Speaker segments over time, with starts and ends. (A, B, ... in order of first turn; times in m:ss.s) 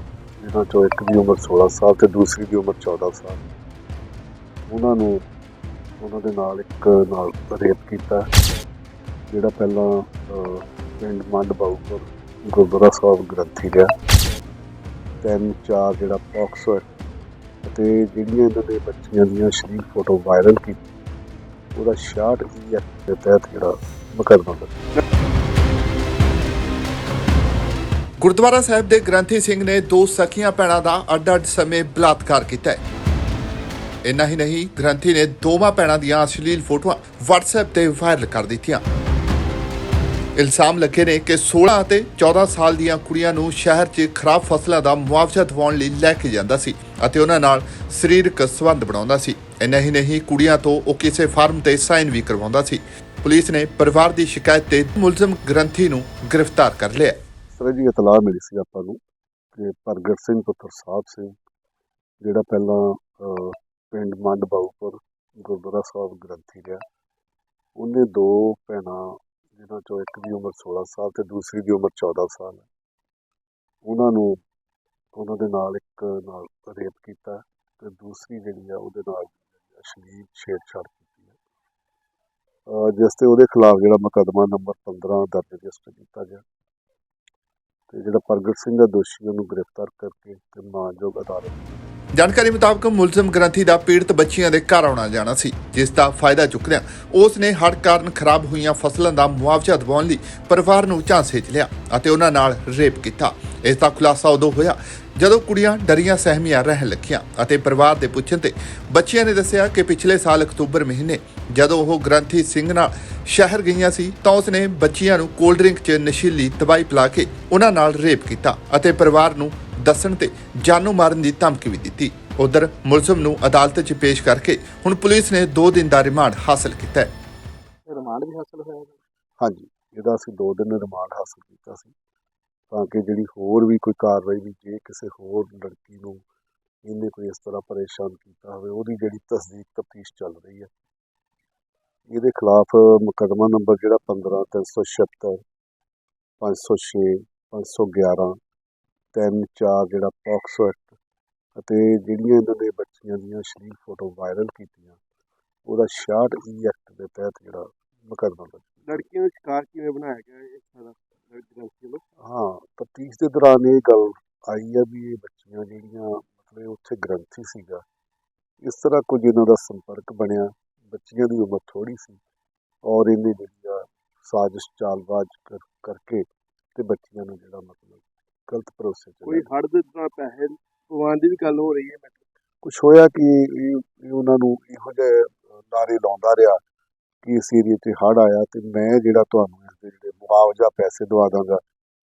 0:00.4-0:03.4 A
0:04.7-0:05.1 A
0:06.0-0:08.3 A
0:09.3-0:13.9 A
0:15.2-0:16.8 A
0:17.6-0:20.8 A
0:21.8-0:24.7 A
0:28.2-0:32.8 B
0:34.0-0:38.8 B
0:40.4-0:57.2 B
0:57.5-0:59.0 A
0:59.6-1:01.4 A
1:02.2-1:06.8 A
1:07.8-1:12.7 A
1:13.8-1:14.4 A
1:15.2-1:21.4 A
1:22.7-1:26.4 A
1:27.9-1:31.7 A
1:32.2-2:07.1 B
2:07.9-2:08.9 C
2:09.4-2:11.9 A
2:12.7-2:16.2 A
2:16.8-2:20.7 A
2:22.1-2:25.4 A
2:26.4-2:28.4 A
2:29.1-2:31.0 A
2:31.6-2:35.0 A
2:35.7-2:39.0 A
2:38.9-2:42.0 C
2:42.2-2:47.8 A
2:48.6-2:52.2 A
2:52.9-2:59.5 A
2:59.3-3:02.2 C
3:02.6-3:06.6 A
3:07.2-3:11.6 A